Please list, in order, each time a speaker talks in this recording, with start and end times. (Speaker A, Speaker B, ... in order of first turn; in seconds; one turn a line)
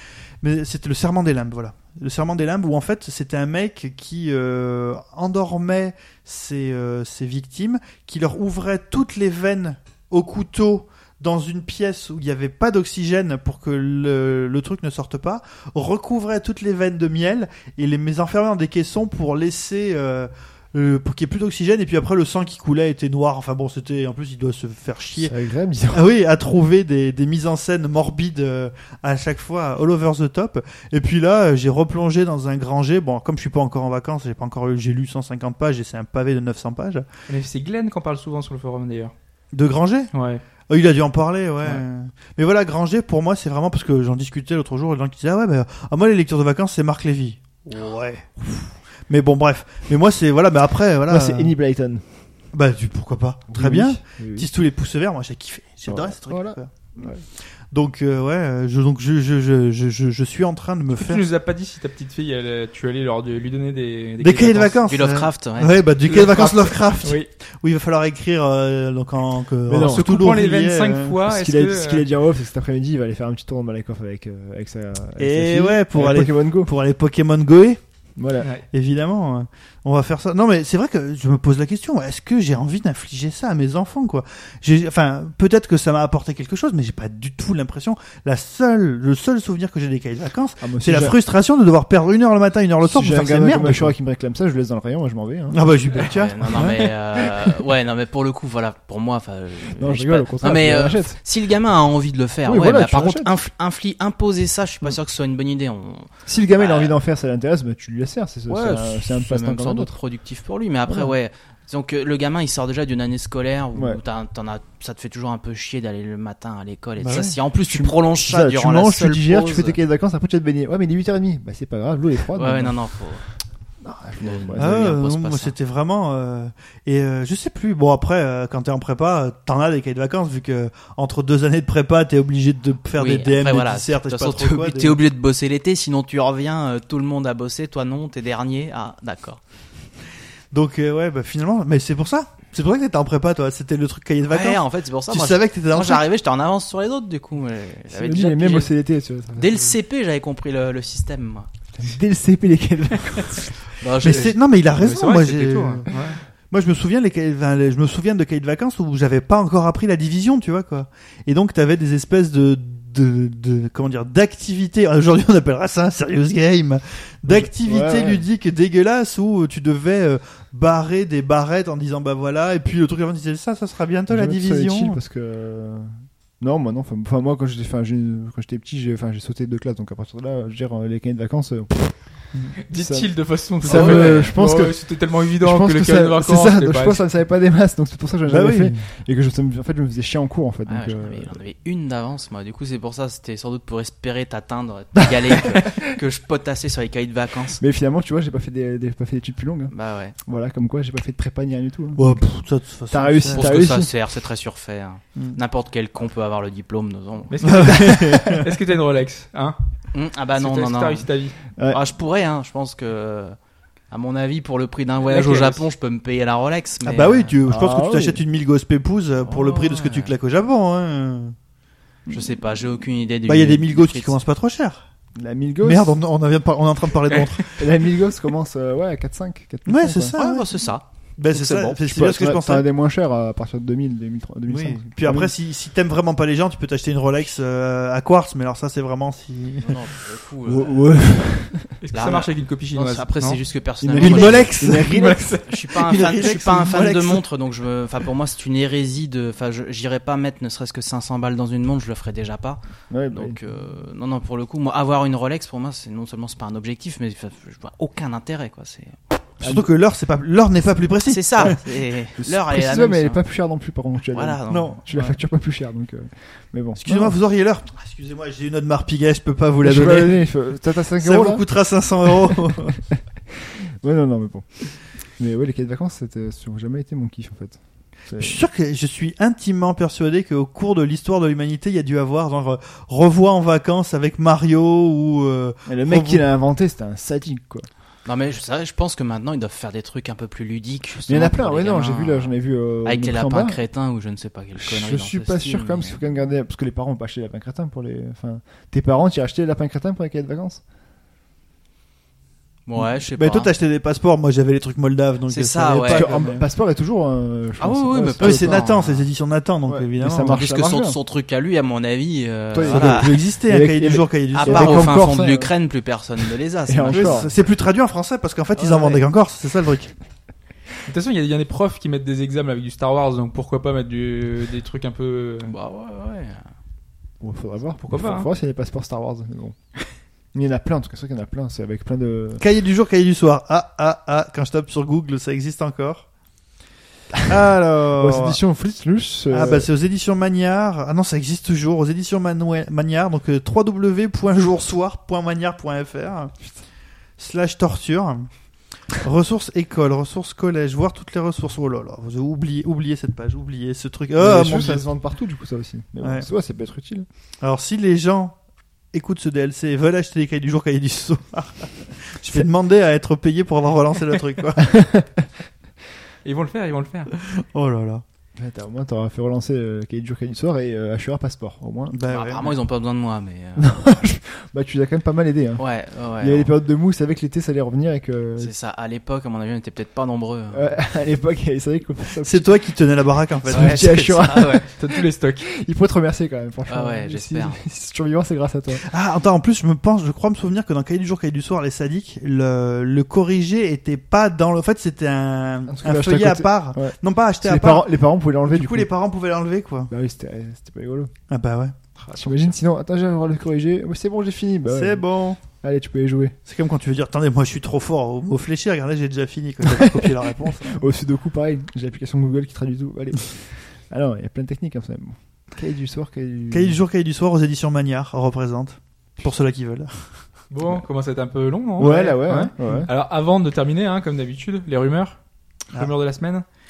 Speaker A: 0.4-25.3
Speaker B: 25.1-26.1
Speaker A: 25.9-37.0
Speaker C: 37.3-39.1
Speaker A: 39.5-40.1
Speaker C: 40.1-40.4
Speaker A: 40.7-51.5
Speaker B: 51.1-52.0
Speaker A: 52.5-57.1
Speaker B: 53.5-54.5
Speaker B: 55.9-57.2
Speaker A: 57.7-61.2
Speaker C: 61.0-64.8
Speaker A: 64.2-71.2
Speaker D: 64.9-65.9
Speaker C: 66.0-67.3
Speaker B: 69.7-70.1
Speaker C: 69.8-72.1
Speaker B: 71.2-76.7
Speaker A: 75.2-77.8
Speaker B: 78.2-78.5
Speaker A: 78.7-93.9
Speaker B: 90.6-91.2
Speaker B: 92.8-95.6
Speaker A: 95.5-96.5
Speaker D: 95.9-107.0
Speaker B: 96.6-96.9
Speaker B: 99.8-101.2
Speaker B: 102.5-103.3
Speaker B: 106.2-109.9
Speaker D: 108.5-119.8
Speaker B: 110.9-111.1
Speaker B: 113.7-114.0
Speaker A: 117.0-117.3
Speaker B: 117.7-122.8
Speaker D: 122.3-123.2
Speaker B: 123.8-125.0
Speaker D: 124.2-125.5
Speaker A: 124.6-135.0
Speaker D: 132.9-139.4
Speaker A: 140.5-146.0
Speaker D: 144.3-148.7
Speaker B: 147.9-149.7
Speaker D: 149.3-151.5
Speaker B: 151.8-153.5
Speaker D: 153.8-154.4
Speaker A: 154.0-155.9
Speaker C: 154.8-156.2
Speaker A: 156.5-175.0
Speaker B: 167.2-168.2
Speaker B: 174.1-181.9
Speaker C: 182.7-187.0
Speaker B: 182.7-184.8
Speaker D: 183.7-184.3
Speaker B: 185.3-191.4
Speaker A: 188.3-188.8
Speaker D: 190.7-197.6
Speaker B: 197.6-202.3
Speaker D: 199.7-200.2
Speaker A: 201.9-203.5
Speaker B: 202.9-203.9
Speaker D: 203.3-207.7
Speaker C: 207.3-209.6
Speaker A: 207.4-208.5
Speaker D: 209.9-211.1
Speaker C: 210.3-211.3
Speaker D: 211.7-213.3
Speaker D: 213.9-217.3
Speaker C: 215.1-215.6
Speaker A: 216.8-221.3
Speaker B: 217.4-218.2
Speaker D: 219.2-220.1
Speaker D: 222.1-224.2
Speaker A: 223.2-224.9
Speaker B: 225.1-226.0
Speaker A: 225.6-227.6
Speaker B: 227.6-230.1
Speaker A: 229.7-230.5
Speaker D: 230.1-231.8
Speaker A: 231.2-232.6
Speaker B: 231.8-235.3
Speaker A: 234.5-239.8
Speaker D: 239.6-240.8
Speaker B: 240.4-241.8
Speaker C: 241.8-243.4
Speaker D: 241.9-244.6
Speaker B: 243.8-245.3
Speaker A: 244.0-247.2
Speaker C: 244.7-245.4
Speaker D: 245.4-252.6
Speaker B: 252.9-253.4
Speaker D: 253.1-259.0
Speaker A: 259.4-261.6
Speaker B: 259.4-259.7
Speaker D: 261.1-263.2
Speaker B: 262.2-267.2
Speaker D: 264.1-264.8
Speaker A: 264.5-265.1
Speaker A: 266.8-270.2
Speaker B: 269.6-271.4
Speaker A: 271.0-272.8
Speaker B: 272.1-272.6
Speaker B: 273.4-278.4
Speaker A: 278.1-286.2
Speaker B: 285.7-287.7
Speaker D: 288.1-296.0
Speaker B: 291.1-293.6
Speaker B: 294.6-300.6
Speaker D: 302.7-303.5
Speaker A: 303.2-306.4
Speaker D: 305.3-306.2
Speaker B: 305.9-308.7
Speaker D: 307.6-309.1
Speaker A: 308.2-310.4
Speaker B: 309.7-311.0
Speaker D: 310.3-313.1
Speaker B: 312.5-315.5
Speaker A: 312.6-315.1
Speaker D: 314.3-317.3
Speaker B: 316.7-317.3
Speaker A: 316.9-319.9
Speaker B: 318.6-318.9
Speaker C: 320.8-325.5
Speaker D: 325.4-326.5
Speaker B: 327.2-329.6
Speaker C: 327.8-328.3
Speaker B: 330.3-332.4
Speaker A: 332.4-336.0
Speaker A: 337.2-338.4
Speaker B: 337.9-339.7
Speaker A: 339.3-346.4
Speaker A: 347.2-348.3
Speaker A: 348.9-354.9
Speaker B: 354.1-357.1
Speaker A: 356.0-356.3
Speaker A: 357.4-358.4
Speaker A: 358.9-364.8
Speaker B: 364.6-365.2
Speaker C: 366.2-367.1
Speaker A: 367.5-368.0
Speaker B: 368.4-372.0
Speaker A: 371.9-372.5
Speaker D: 372.0-373.7
Speaker B: 373.6-375.6
Speaker D: 375.6-376.5
Speaker B: 376.2-378.5
Speaker D: 378.4-380.8
Speaker B: 380.5-382.6
Speaker A: 382.2-384.2
Speaker B: 383.5-388.9
Speaker D: 383.5-384.6
Speaker C: 383.5-385.5
Speaker D: 386.7-387.6
Speaker A: 388.8-397.9
Speaker B: 395.7-398.9
Speaker A: 398.4-399.9
Speaker B: 399.9-401.1
Speaker A: 401.3-401.7
Speaker C: 402.0-402.5
Speaker B: 402.2-406.3
Speaker A: 404.7-405.4
Speaker A: 406.4-410.9
Speaker B: 409.6-416.8
Speaker A: 416.5-420.0
Speaker C: 420.5-426.4
Speaker B: 421.8-422.9